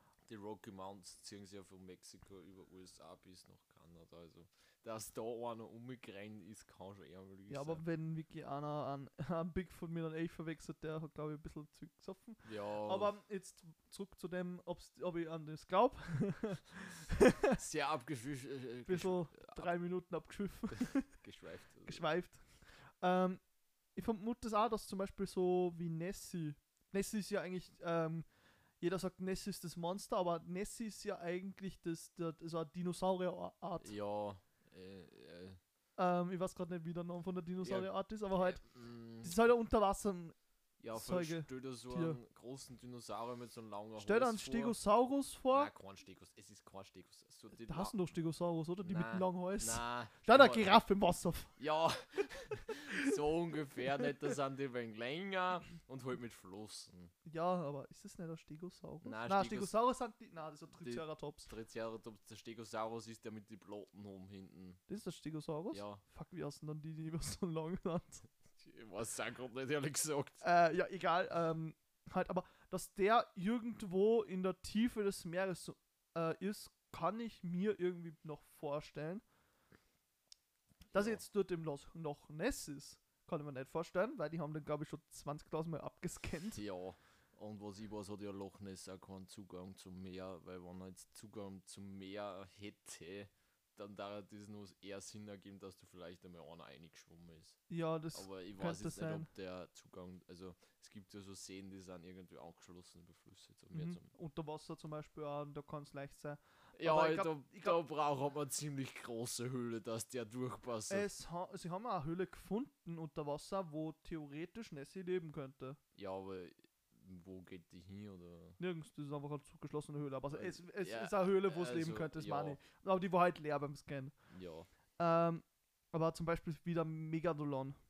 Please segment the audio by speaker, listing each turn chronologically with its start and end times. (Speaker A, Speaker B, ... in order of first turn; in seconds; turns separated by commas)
Speaker A: 0.3-7.8, Speaker B: 7.5-17.6, Speaker A: 12.4-13.1, Speaker A: 17.6-19.7, Speaker B: 18.9-21.1, Speaker A: 20.7-22.0, Speaker B: 21.8-23.4, Speaker B: 23.9-28.3, Speaker B: 28.8-33.9, Speaker A: 33.8-35.6, Speaker B: 36.0-38.6, Speaker A: 37.6-39.4, Speaker B: 39.2-40.3, Speaker A: 40.8-44.8, Speaker B: 40.9-42.2, Speaker B: 44.0-45.7, Speaker A: 45.5-47.9, Speaker B: 47.6-51.5, Speaker A: 48.8-50.7, Speaker A: 51.6-57.1, Speaker B: 57.2-61.5, Speaker A: 59.0-59.7, Speaker A: 60.8-64.8, Speaker B: 64.9-68.3, Speaker A: 65.7-66.0, Speaker A: 68.6-70.4, Speaker B: 70.4-79.2, Speaker A: 80.9-81.2, Speaker B: 80.9-86.6, Speaker A: 86.5-97.6, Speaker B: 97.7-99.3, Speaker A: 98.1-104.1, Speaker B: 103.7-107.8, Speaker A: 106.7-111.1, Speaker B: 110.9-115.8, Speaker A: 115.9-118.6, Speaker B: 118.6-124.1, Speaker A: 120.3-122.6, Speaker A: 124.3-124.7, Speaker B: 125.0-127.8